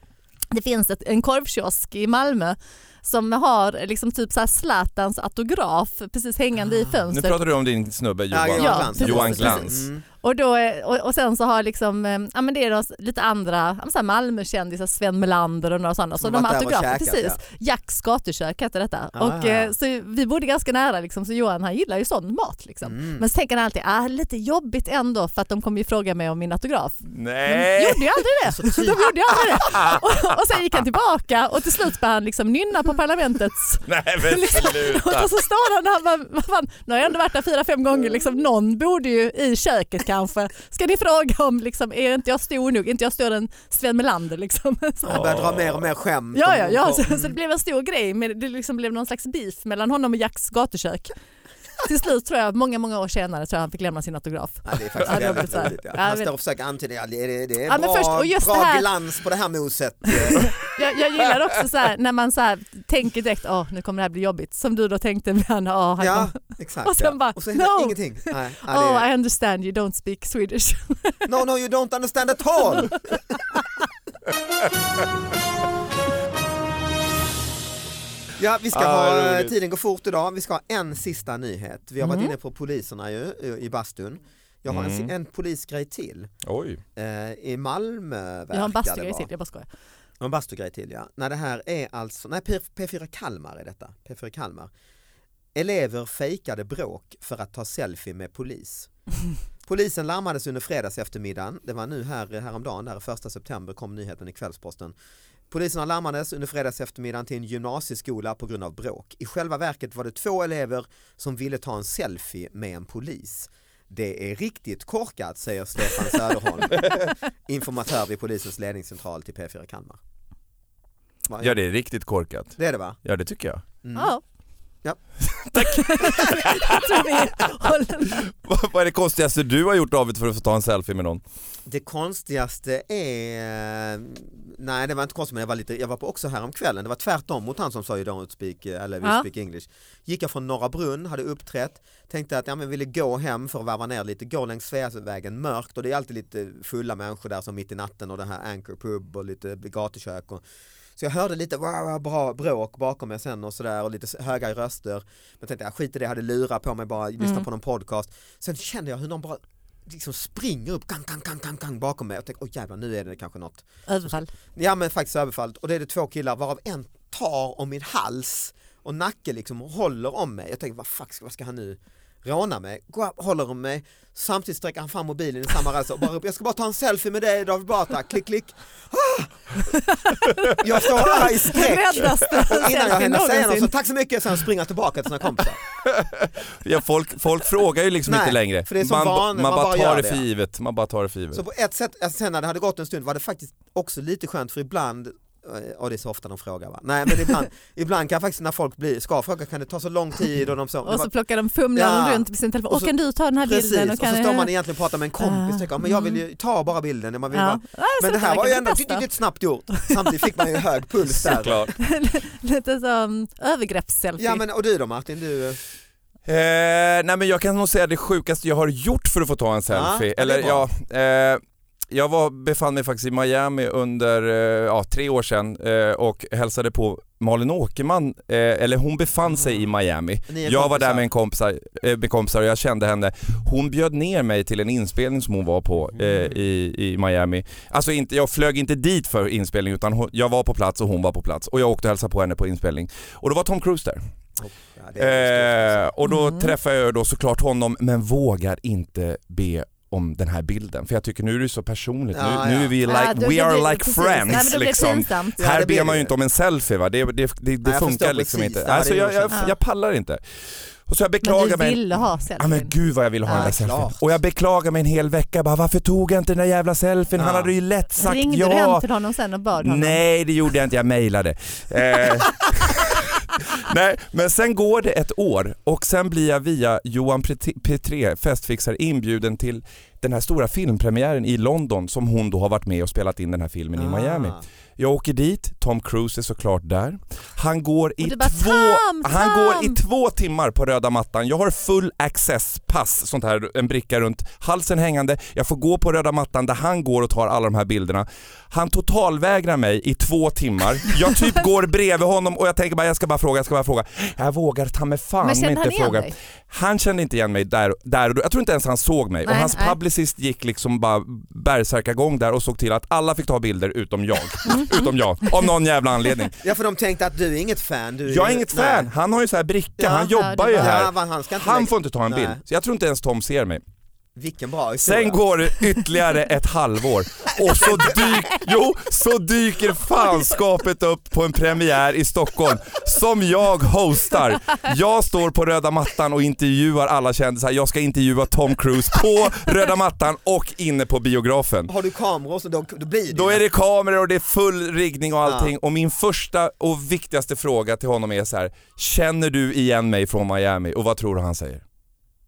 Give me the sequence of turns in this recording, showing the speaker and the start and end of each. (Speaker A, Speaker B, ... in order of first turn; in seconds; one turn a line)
Speaker A: 0.5-7.5
Speaker B: 6.7-7.0
Speaker C: 7.1-9.9
Speaker B: 8.3-10.0
Speaker A: 8.6-45.3
Speaker B: 16.2-17.4
Speaker B: 19.1-19.7
Speaker B: 22.8-23.2
Speaker C: 27.1-28.2
Speaker B: 28.5-29.7
Speaker C: 29.6-30.2
Speaker C: 33.9-35.3
Speaker B: 45.0-47.4
Speaker C: 45.1-45.9
Speaker A: 46.3-51.1
Speaker A: 51.8-56.3
Speaker B: 54.6-60.5
Speaker A: 57.7-58.9
Speaker A: 60.3-71.3
Speaker B: 66.0-69.1
Speaker B: 71.3-73.4
Speaker B: 78.4-86.3
Speaker C: 78.7-79.5
Speaker A: 82.0-82.3
Speaker C: 84.7-85.1
Speaker C: 86.4-86.8
Speaker B: 87.0-89.3
Speaker A: 88.5-89.7
Speaker B: 90.2-94.7
Speaker B: 95.5-98.9
Speaker B: 99.7-104.9
Speaker B: 105.5-120.0
Speaker B: 121.3-121.5
Speaker C: 121.4-123.6
Speaker B: 122.6-123.0
Speaker B: 123.8-124.1
Speaker A: 124.0-124.2
Speaker C: 125.3-127.3
Speaker A: 125.6-128.3
Speaker B: 126.0-126.3
Speaker C: 128.1-131.2
Speaker B: 131.7-150.4
Speaker B: 151.0-179.5
Speaker A: 157.2-157.5
Speaker A: 163.9-164.3
Speaker A: 179.6-183.7
Speaker B: 180.6-185.6
Speaker C: 185.8-191.4
Speaker B: 188.1-190.3
Speaker B: 191.3-201.1
Speaker A: 200.8-204.5
Speaker B: 201.7-211.7
Speaker A: 205.2-206.2
Speaker A: 207.3-209.0
Speaker C: 211.1-211.7
Speaker A: 211.8-214.4
Speaker B: 214.2-215.6
Speaker C: 216.3-244.0
Speaker B: 219.7-220.7
Speaker B: 230.3-231.1
Speaker B: 244.4-245.9
Speaker C: 245.0-268.9
Speaker A: 246.0-246.5
Speaker B: 252.1-252.8
Speaker A: 252.9-255.4
Speaker B: 255.4-256.1
Speaker B: 257.6-259.4
Speaker A: 261.2-262.7
Speaker A: 263.2-263.5
Speaker B: 263.3-264.1
Speaker B: 267.2-267.5
Speaker A: 268.0-270.0
Speaker C: 269.6-316.4
Speaker B: 283.8-284.4
Speaker A: 288.0-289.8
Speaker A: 305.2-306.1
Speaker A: 309.3-309.8
Speaker A: 314.4-314.9
Speaker B: 316.4-318.9
Speaker C: 318.1-323.6
Speaker B: 319.8-322.4
Speaker A: 320.1-320.8
Speaker B: 324.2-325.2
Speaker C: 324.8-341.7
Speaker B: 327.3-328.3
Speaker B: 341.7-343.4
Speaker C: 343.1-351.6
Speaker B: 345.2-345.5